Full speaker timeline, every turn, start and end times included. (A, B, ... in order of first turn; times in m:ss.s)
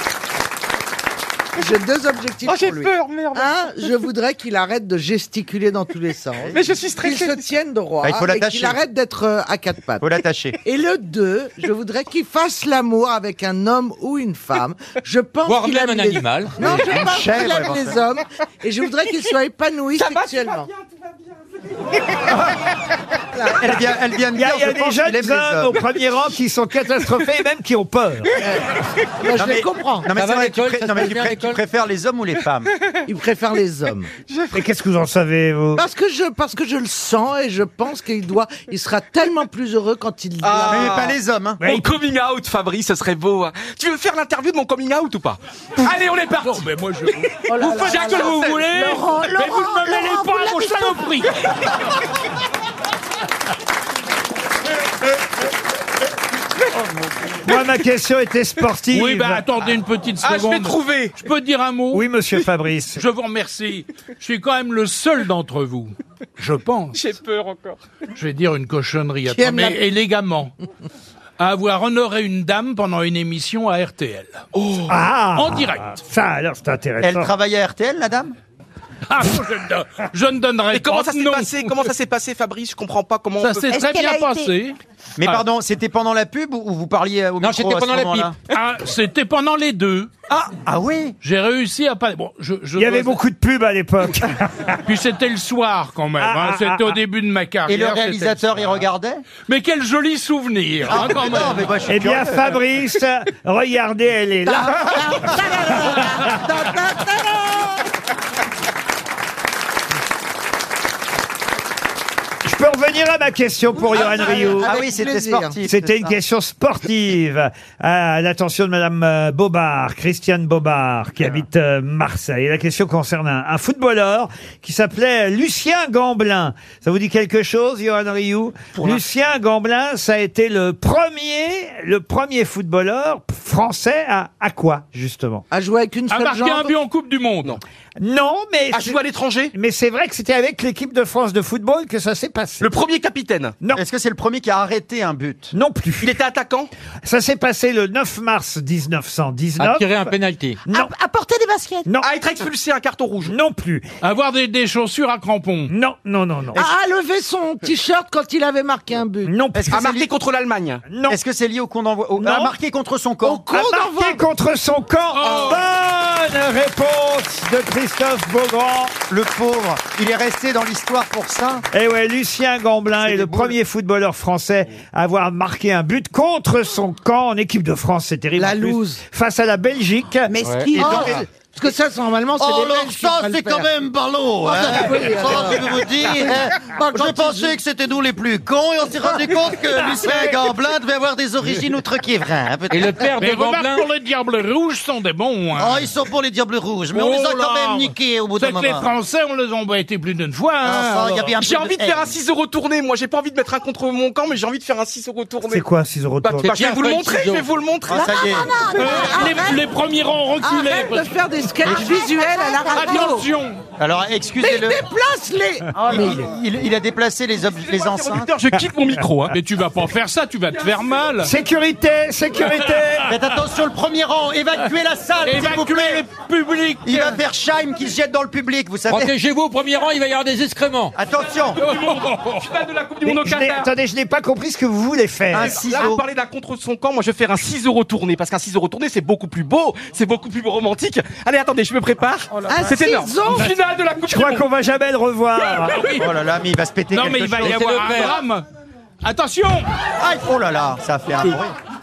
0:01.6-0:10.0 A
0:02.4-0:03.5 B
0:06.5-0:07.4 B
0:08.0-0:08.8 C
0:10.0-0:10.6 C
0:10.6-0:20.7 A
0:15.4-0:16.9 D
0:16.6-0:18.0 C
0:20.0-0:20.6 B
0:23.5-0:25.8 C
0:24.3-0:28.3 E
0:28.4-0:30.1 A
0:29.3-0:32.7 C
0:30.1-0:31.6 D
0:33.0-0:34.1 A
0:34.3-0:34.6 B
0:34.5-0:35.8 E
0:35.8-0:41.1 A
0:40.4-0:46.6 B
0:40.7-0:41.6 C
0:45.8-0:51.3 F
0:47.5-0:51.2 G
0:47.7-0:48.7 B
0:57.4-0:59.4 E
0:58.9-1:02.1 F
1:00.2-1:01.2 B
1:01.9-1:03.0 E
1:03.0-1:07.0 F
1:06.9-1:07.8 B
1:08.2-1:10.5 F
1:09.3-1:09.8 A
1:11.4-1:14.5 F
1:14.5-1:14.9 B
1:14.9-1:17.3 E
1:15.3-1:16.0 F
1:17.0-1:18.3 C
1:19.1-1:21.9 F
1:20.7-1:23.7 B
1:23.4-1:25.4 F
1:23.7-1:24.5 G
1:25.2-1:28.3 C
1:27.4-1:28.3 D
1:28.5-1:30.1 F
1:30.3-1:31.1 C
1:31.2-1:33.2 F
1:32.8-1:34.8 E
1:34.8-1:38.7 F
1:36.2-1:37.0 E
1:37.7-1:39.2 C
1:39.5-1:41.7 F
1:40.8-1:42.6 C
1:41.9-1:45.0 E
1:44.5-1:47.6 A
1:44.9-1:45.9 G
1:52.4-1:54.7 E
1:53.9-1:55.6 A
1:54.3-1:56.2 C
1:55.7-2:15.4 E
2:08.7-2:09.0 B
2:15.5-2:16.7 A
2:16.1-2:17.6 F
2:18.0-2:19.0 E
2:18.7-2:19.5 B
2:19.5-2:22.7 E
2:22.6-2:23.5 B
2:23.7-2:25.5 C
2:25.5-2:26.1 E
2:26.0-2:26.7 B
2:27.0-2:30.1 E
2:29.6-2:30.6 D
2:30.7-2:31.9 G
2:32.0-2:33.3 B
2:33.2-2:33.8 E
2:34.0-2:35.7 F
2:35.7-2:36.6 E
2:36.5-2:39.3 A
2:39.2-2:39.8 E
2:39.5-2:40.1 C
2:39.7-2:40.8 B
2:40.8-2:41.2 E
2:41.1-2:43.5 C
2:42.2-2:42.5 E
2:43.2-2:44.2 A
2:43.5-2:49.0 E
2:45.1-2:45.6 F
2:49.1-2:51.6 C
2:51.7-3:00.3 E
2:53.0-2:53.6 C
2:58.4-2:59.0 A
3:00.3-3:01.2 G
3:00.4-3:00.7 D
3:00.8-3:03.7 A
3:00.8-3:01.2 C
3:02.4-3:13.1 H
3:04.4-3:07.6 A
3:09.4-3:10.3 C
3:12.7-3:13.9 D
3:13.2-3:15.9 F
3:15.6-3:18.9 H
3:16.9-3:21.4 F
3:20.6-3:22.1 H
3:21.4-3:25.6 B
3:25.4-3:26.6 E
3:26.2-3:28.4 B
3:26.4-3:27.5 D
3:27.9-3:29.6 G
3:27.9-3:28.6 C
3:28.8-3:29.6 A
3:28.8-3:31.0 F
3:30.4-3:33.3 A
3:31.6-3:33.2 G
3:32.7-3:33.6 F
3:33.8-3:34.8 C
3:34.4-3:36.2 A
3:35.7-3:36.2 G
3:35.9-3:38.3 C
3:37.6-3:39.3 B
3:39.3-3:41.3 F
3:41.2-3:43.1 E
3:42.4-3:43.2 F
3:43.1-3:46.0 C
3:45.2-3:47.2 F
3:46.8-3:49.1 C
3:48.9-3:50.9 D
3:51.0-3:51.6 C
3:51.6-3:52.4 F
3:51.6-3:53.7 B
3:53.0-3:55.6 E
3:55.3-3:56.0 C
3:55.6-4:04.4 B
4:02.5-4:03.5 A
4:04.0-4:05.8 E
4:05.7-4:06.1 F
4:05.9-4:08.0 C
4:06.9-4:08.4 F
4:07.4-4:08.2 D
4:09.0-4:09.7 F
4:10.0-4:11.5 C